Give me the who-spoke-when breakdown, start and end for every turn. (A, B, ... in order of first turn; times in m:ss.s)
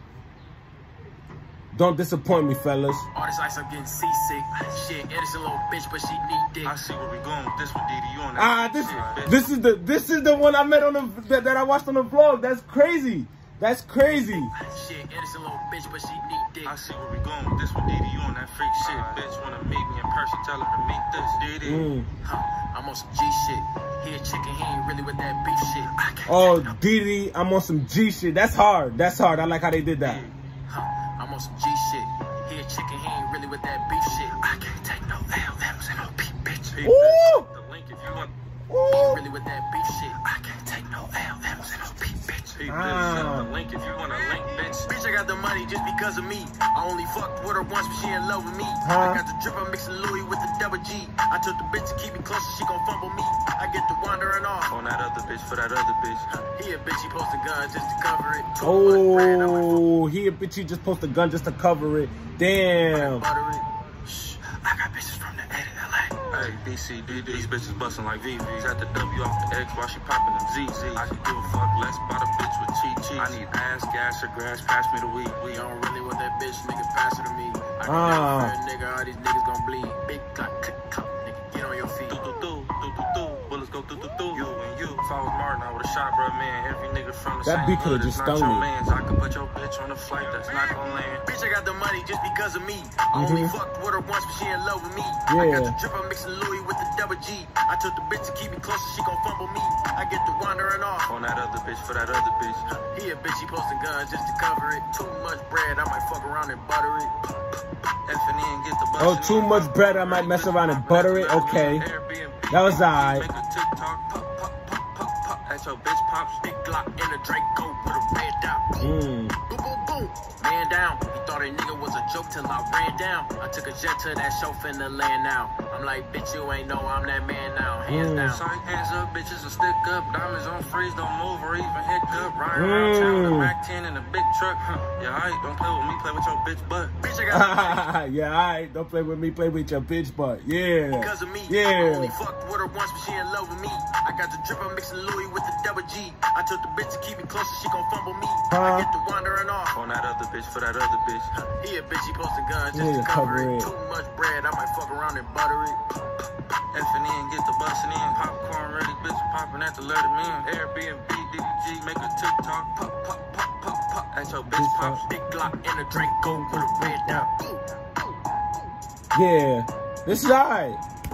0:01.7-0:03.1 A
0:03.1-0:06.8 B
0:06.6-0:09.5 C
0:08.4-0:14.5 A
0:14.5-0:16.8 B
0:16.6-0:21.9 C
0:21.6-0:22.1 A
0:22.2-0:26.8 B
0:26.3-0:30.2 A
0:30.0-0:30.3 C
0:30.7-0:34.4 B
0:34.5-0:36.0 C
0:35.8-0:36.6 B
0:36.6-0:38.3 C
0:36.8-0:37.5 A
0:38.7-0:39.2 A
0:38.9-0:40.2 B
0:40.2-0:44.9 C
0:42.6-0:43.5 A
0:44.2-0:54.8 B
0:48.8-0:49.2 A
0:54.7-0:56.3 C
0:56.3-0:59.8 B
0:58.6-1:03.2 A
1:02.9-1:03.6 B
1:04.0-1:15.6 C
1:15.5-1:22.2 B
1:17.8-1:18.6 A
1:22.1-1:31.2 C
1:27.4-1:28.7 A
1:30.4-1:41.1 B
1:33.1-1:33.5 A
1:35.3-1:35.8 A
1:41.1-1:42.7 C
1:42.7-1:47.1 B
1:48.0-1:56.4 C
1:49.0-1:51.8 A
1:52.5-1:53.3 A
1:56.4-1:58.9 B
1:58.8-1:59.4 A
1:59.4-2:08.4 B
2:07.9-2:08.4 A
2:08.2-2:17.0 C
2:12.5-2:13.5 A
2:17.0-2:17.8 B
2:17.3-2:22.1 A
2:21.0-2:29.8 B
2:28.5-2:28.9 A
2:29.7-2:31.3 C
2:31.4-2:35.8 B
2:32.7-2:33.7 A
2:36.7-2:45.0 C
2:44.5-2:45.0 A
2:45.1-2:48.1 B
2:45.9-2:47.2 A
2:49.1-2:50.8 A